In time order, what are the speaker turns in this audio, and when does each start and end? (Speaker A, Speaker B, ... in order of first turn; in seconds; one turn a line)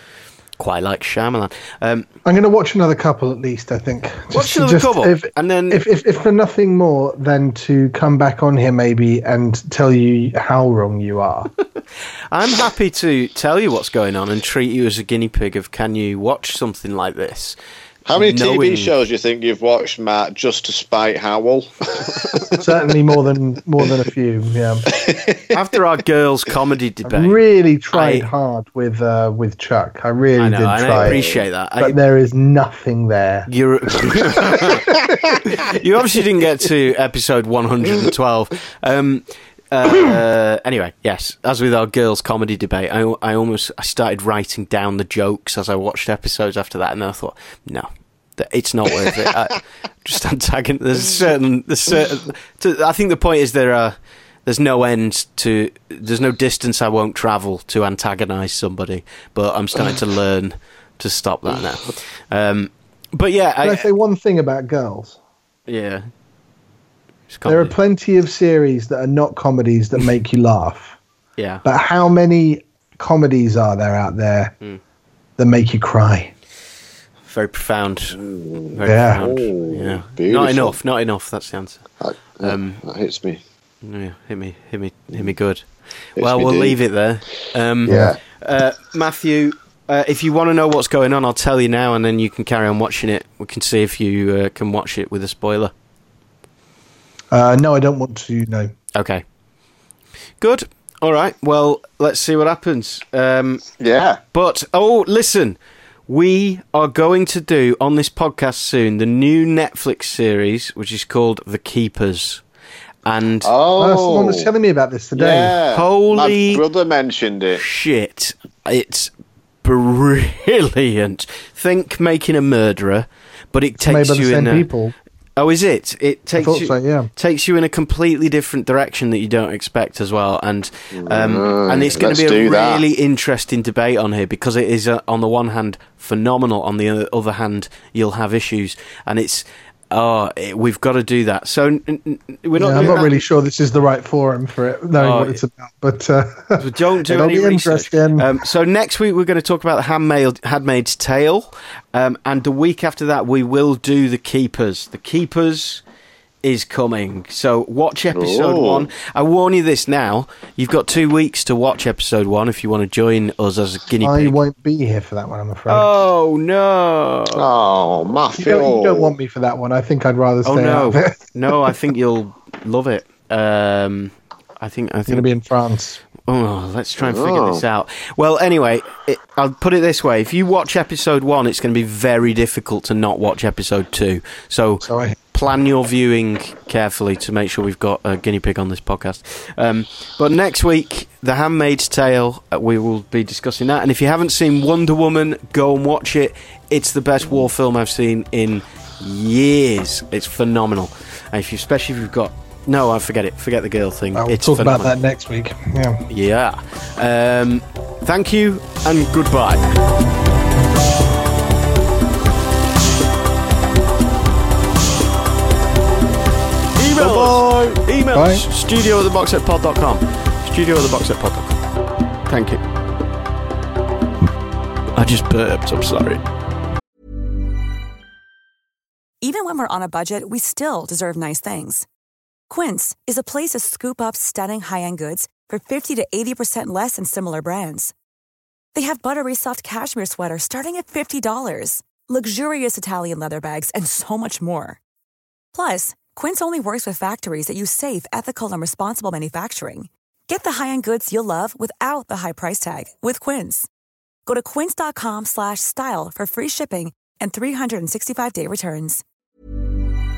Speaker A: 0.6-2.1
Speaker B: 2.2-11.5
Speaker A: 4.3-5.8
Speaker A: 12.3-17.6
Speaker C: 18.1-22.5
Speaker A: 18.1-18.9
Speaker A: 22.1-22.6
Speaker B: 22.6-24.9
Speaker C: 24.9-25.5
Speaker A: 25.5-27.4
Speaker B: 27.1-33.5
Speaker A: 27.9-28.3
Speaker A: 30.4-32.0
Speaker A: 33.5-34.9
Speaker A: 35.5-63.9
Speaker B: 63.6-65.2
Speaker A: 65.7-66.0
Speaker A: 67.3-67.7
Speaker B: 67.5-71.0
Speaker A: 71.4-71.7
Speaker B: 71.6-74.5
Speaker B: 75.4-76.3
Speaker A: 77.3-81.8
Speaker C: 78.2-80.8
Speaker B: 78.9-79.2
Speaker C: 82.0-83.4
Speaker A: 82.4-82.8
Speaker A: 83.8-95.7
Speaker C: 86.2-86.8
Speaker C: 87.9-88.2
Speaker B: 87.9-88.1
Speaker B: 97.3-98.7
Speaker A: 99.0-99.2
Speaker A: 100.4-103.6
Speaker C: 103.8-104.2
Speaker A: 104.3-105.6
Speaker A: 106.1-112.4
Speaker A: 113.0-113.5
Speaker C: 113.4-114.5
Speaker B: 113.8-115.5
Speaker C: 115.2-117.6
Speaker A: 115.7-116.6
Speaker A: 117.6-119.1
Speaker A: 119.6-124.7
Speaker B: 123.8-125.0
Speaker A: 125.4-143.1
Speaker B: 126.4-127.1
Speaker C: 130.9-132.8
Speaker B: 142.6-148.3
Speaker C: 142.8-143.0
Speaker A: 144.9-145.4
Speaker A: 146.6-155.8
Speaker A: 156.4-164.4
Speaker C: 158.1-158.9
Speaker B: 164.0-165.9
Speaker A: 165.7-167.5
Speaker C: 167.4-169.1
Speaker B: 168.3-171.7
Speaker A: 170.4-175.3
Speaker B: 175.1-176.0
Speaker A: 176.3-204.9
Speaker C: 177.0-177.6
Speaker B: 184.8-185.2
Speaker B: 204.2-206.1
Speaker A: 206.1-209.8
Speaker A: 216.8-221.6
Speaker C: 217.0-217.8
Speaker B: 218.1-218.4
Speaker A: 222.3-222.6
Speaker A: 224.9-226.2
Speaker D: 229.2-231.9
Speaker D: 232.5-237.9
Speaker D: 238.8-244.8
Speaker D: 245.5-253.7
Speaker D: 254.3-259.0